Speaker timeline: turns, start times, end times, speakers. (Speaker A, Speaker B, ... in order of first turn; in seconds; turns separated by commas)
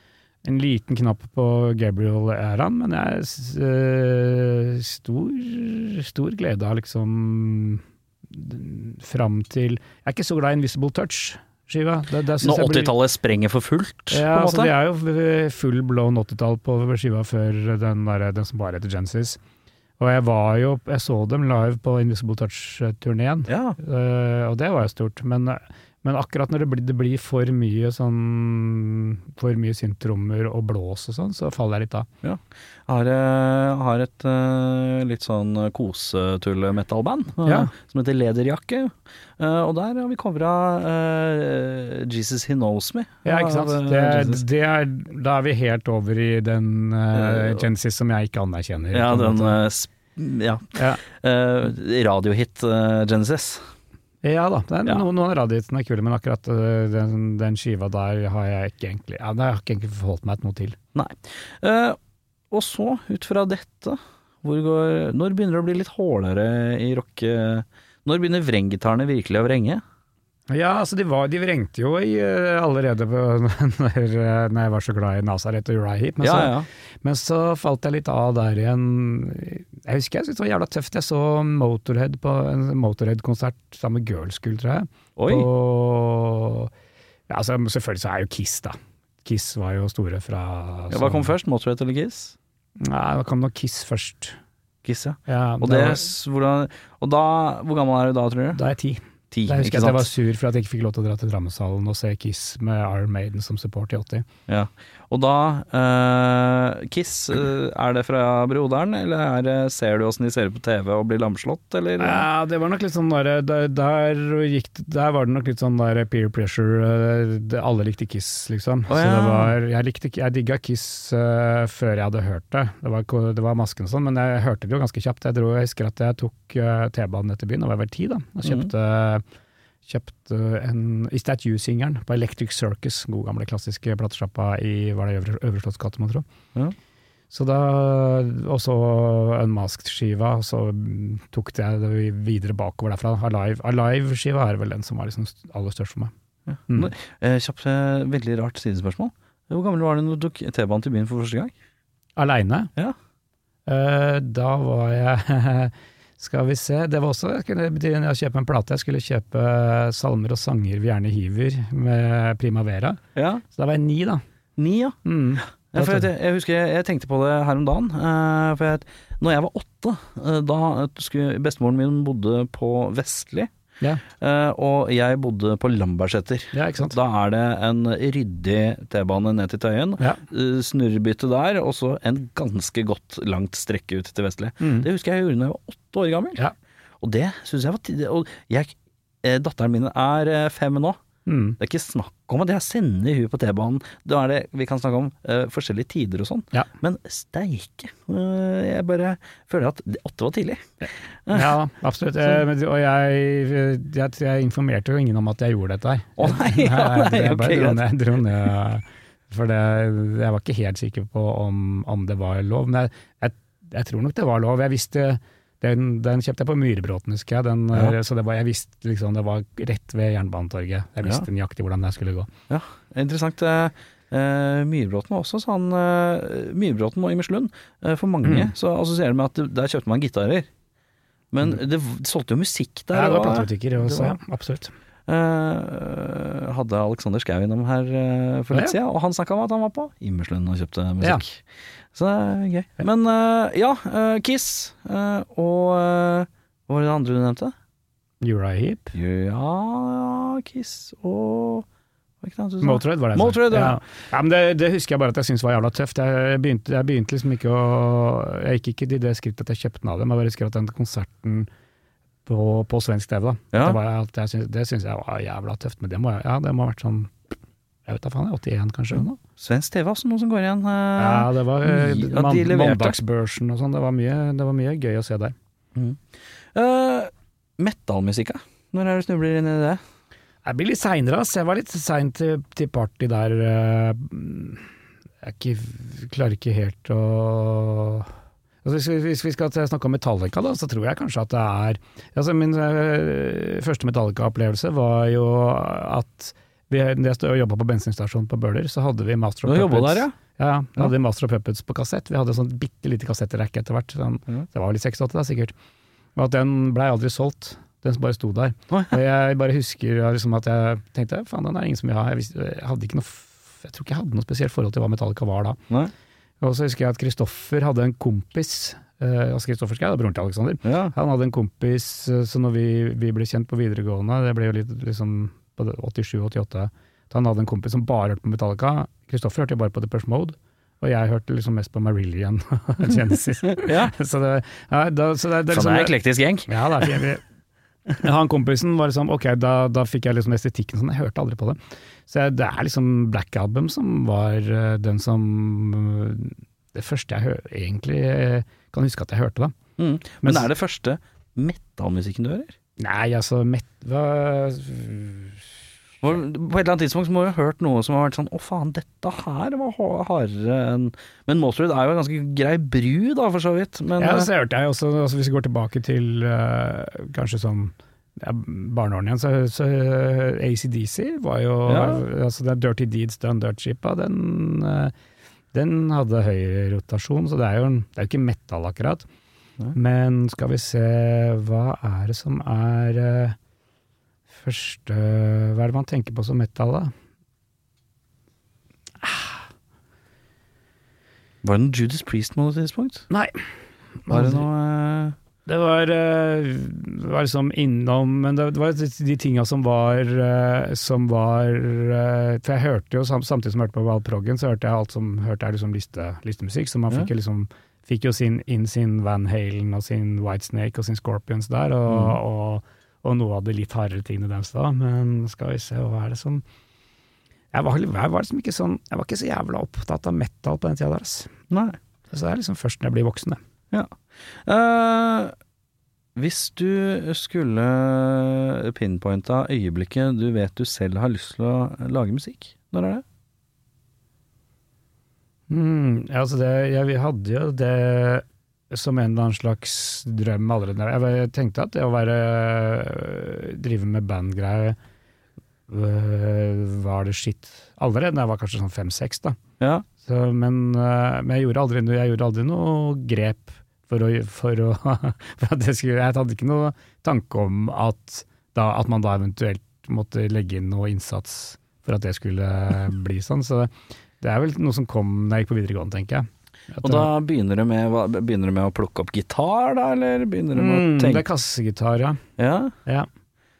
Speaker A: 0.4-12.9, Speaker B: 12.4-14.7, Speaker A: 14.1-19.4, Speaker A: 20.0-32.1, Speaker B: 23.5-23.8, Speaker B: 32.2-44.4, Speaker A: 37.4-37.7, Speaker A: 43.2-49.6, Speaker B: 47.1-47.6, Speaker B: 48.9-53.6, Speaker A: 50.7-51.0, Speaker A: 54.2-60.8, Speaker B: 60.9-62.0, Speaker B: 62.5-69.8, Speaker A: 70.5-86.7, Speaker B: 76.2-76.7, Speaker B: 85.2-85.5, Speaker A: 87.3-91.3, Speaker B: 90.9-92.3, Speaker A: 92.8-94.4, Speaker B: 94.8-98.6, Speaker A: 95.3-96.1, Speaker A: 98.5-104.3, Speaker B: 99.3-100.1, Speaker B: 104.5-112.2, Speaker A: 112.0-129.2, Speaker B: 118.9-119.5, Speaker B: 128.4-128.7, Speaker A: 129.8-136.2, Speaker A: 137.3-146.1, Speaker B: 146.5-151.5, Speaker A: 152.2-152.7, Speaker A: 153.7-163.0, Speaker B: 163.2-163.4, Speaker A: 163.5-164.2, Speaker B: 164.6-165.0, Speaker A: 165.0-166.1, Speaker B: 165.7-173.5, Speaker B: 174.1-186.4, Speaker A: 176.5-177.0, Speaker A: 184.6-184.9, Speaker B: 187.0-191.0, Speaker A: 191.2-191.6, Speaker B: 191.6-200.7, Speaker B: 201.2-201.5, Speaker A: 201.3-222.3, Speaker B: 206.2-207.9, Speaker B: 222.5-230.5, Speaker A: 228.2-228.5, Speaker B: 231.3-234.2, Speaker A: 232.9-234.7, Speaker B: 235.1-247.5, Speaker A: 248.2-248.9, Speaker B: 248.9-251.7, Speaker B: 252.2-253.8, Speaker A: 252.6-261.5, Speaker A: 262.2-267.1, Speaker B: 263.5-263.8, Speaker A: 267.9-269.2, Speaker B: 269.4-273.0, Speaker A: 271.0-275.3, Speaker B: 275.7-276.0, Speaker B: 276.5-279.8, Speaker A: 280.4-284.7, Speaker A: 285.2-288.1, Speaker A: 288.6-305.5, Speaker B: 299.4-300.1, Speaker A: 306.1-315.6, Speaker B: 308.7-309.0, Speaker A: 316.4-335.9, Speaker B: 320.6-320.9, Speaker B: 333.6-333.9, Speaker B: 335.5-337.0, Speaker A: 336.5-337.2, Speaker A: 338.0-349.5, Speaker B: 349.8-352.5, Speaker A: 350.2-350.5, Speaker A: 352.8-355.4, Speaker B: 356.0-364.3, Speaker A: 364.0-374.9, Speaker B: 371.7-372.0, Speaker A: 375.5-379.1, Speaker A: 379.7-383.4, Speaker A: 384.3-386.9, Speaker A: 389.0-389.3, Speaker B: 391.4-393.1, Speaker A: 393.1-393.4, Speaker A: 394.0-394.5, Speaker B: 394.1-395.1, Speaker A: 395.4-416.4, Speaker B: 411.9-412.2, Speaker A: 417.5-421.3, Speaker B: 421.5-421.8, Speaker A: 422.1-423.4, Speaker B: 423.7-425.3, Speaker B: 426.1-433.0, Speaker A: 435.5-444.8, Speaker A: 445.7-449.4, Speaker B: 449.6-449.9, Speaker A: 450.0-467.1, Speaker B: 466.8-471.2, Speaker A: 470.5-472.2, Speaker B: 472.4-472.7